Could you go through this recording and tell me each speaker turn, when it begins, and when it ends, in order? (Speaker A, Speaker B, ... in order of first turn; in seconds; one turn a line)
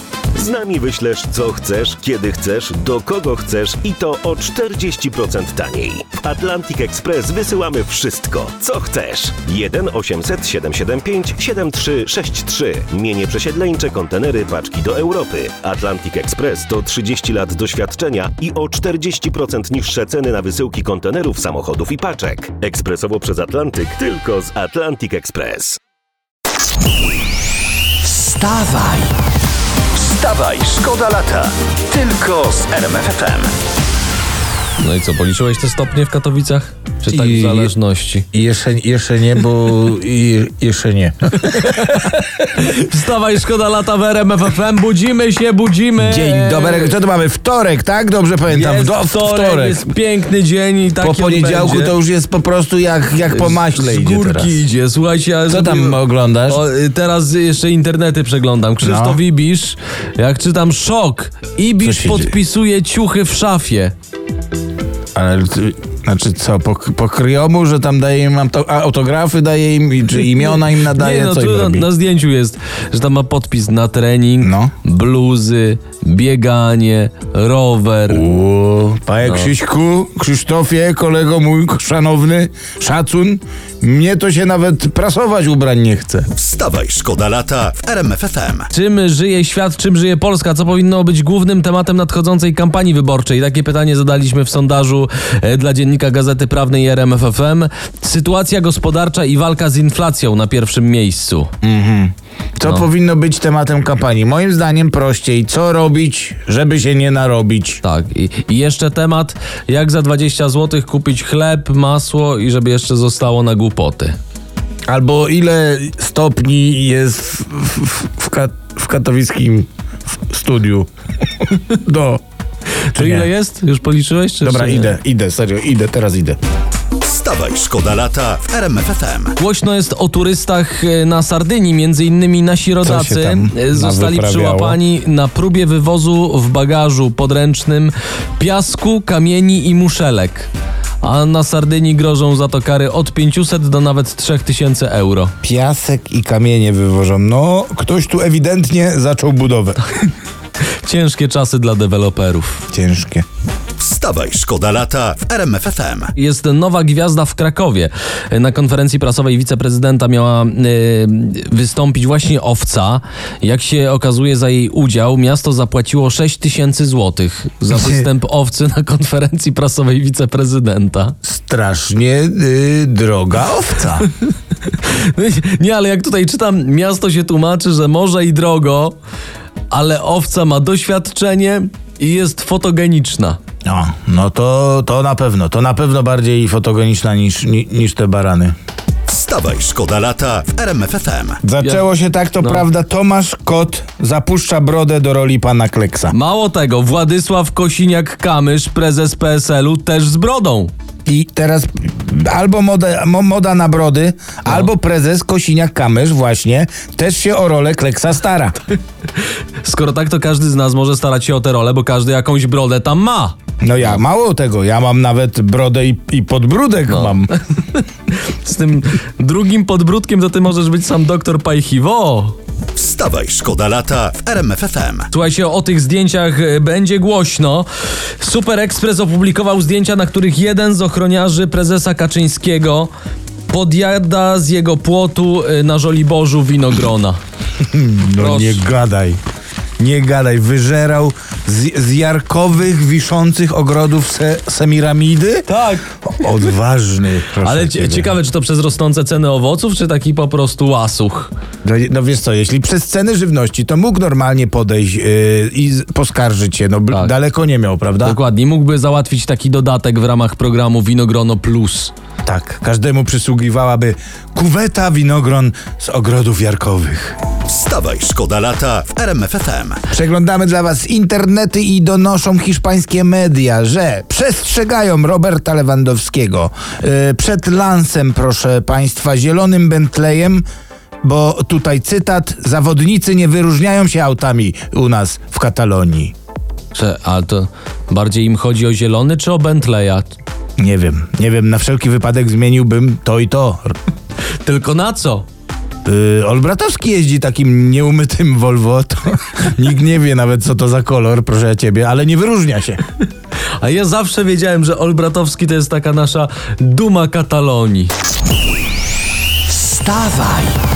Speaker A: 0.3-25.8
Speaker B: 28.1-28.9
Speaker A: 28.8-29.1
Speaker B: 29.9-33.6
Speaker C: 34.8-38.3
Speaker D: 37.1-37.7
Speaker D: 38.3-42.2
Speaker C: 41.3-47.0
Speaker D: 46.0-49.9
Speaker C: 48.5-52.0
Speaker D: 51.0-54.6
Speaker C: 53.3-64.0
Speaker D: 55.5-56.6
Speaker D: 58.8-59.2
Speaker D: 61.8-62.4
Speaker D: 65.2-71.9
Speaker C: 70.3-78.3
Speaker D: 74.4-74.7
Speaker D: 78.1-86.3
Speaker C: 79.2-79.5
Speaker B: 86.4-88.7
Speaker C: 88.7-101.5
Speaker D: 101.6-107.8
Speaker C: 107.8-114.2
Speaker D: 114.9-119.7
Speaker D: 120.3-122.2
Speaker C: 122.9-125.0
Speaker D: 122.9-123.3
Speaker D: 124.4-126.4
Speaker B: 127.0-129.4
Speaker C: 129.4-140.5
Speaker D: 132.8-134.8
Speaker C: 141.0-145.3
Speaker D: 145.4-150.0
Speaker C: 150.8-152.6
Speaker D: 152.7-153.2
Speaker B: 153.8-156.1
Speaker C: 156.2-171.2
Speaker D: 167.7-168.1
Speaker D: 171.2-174.1
Speaker C: 174.7-179.0
Speaker C: 179.7-183.4
Speaker D: 183.7-188.5
Speaker B: 189.1-191.4
Speaker D: 191.4-196.2
Speaker C: 192.4-192.7
Speaker C: 196.1-200.7
Speaker D: 201.1-208.6
Speaker C: 209.6-214.0
Speaker D: 213.6-217.4
Speaker C: 216.9-222.4
Speaker B: 222.8-225.1
Speaker C: 225.1-232.9
Speaker C: 233.5-237.2
Speaker D: 237.6-239.2
Speaker C: 238.2-238.6
Speaker D: 239.8-245.5
Speaker C: 245.5-246.0
Speaker D: 246.1-248.1
Speaker C: 247.4-251.3
Speaker D: 251.6-258.2
Speaker C: 258.0-261.9
Speaker D: 262.2-267.2
Speaker B: 267.5-269.8
Speaker D: 269.9-280.4
Speaker D: 281.0-286.1
Speaker C: 286.7-290.2
Speaker D: 290.6-293.8
Speaker C: 294.4-295.3
Speaker D: 295.9-302.8
Speaker C: 303.6-307.9
Speaker B: 310.0-310.5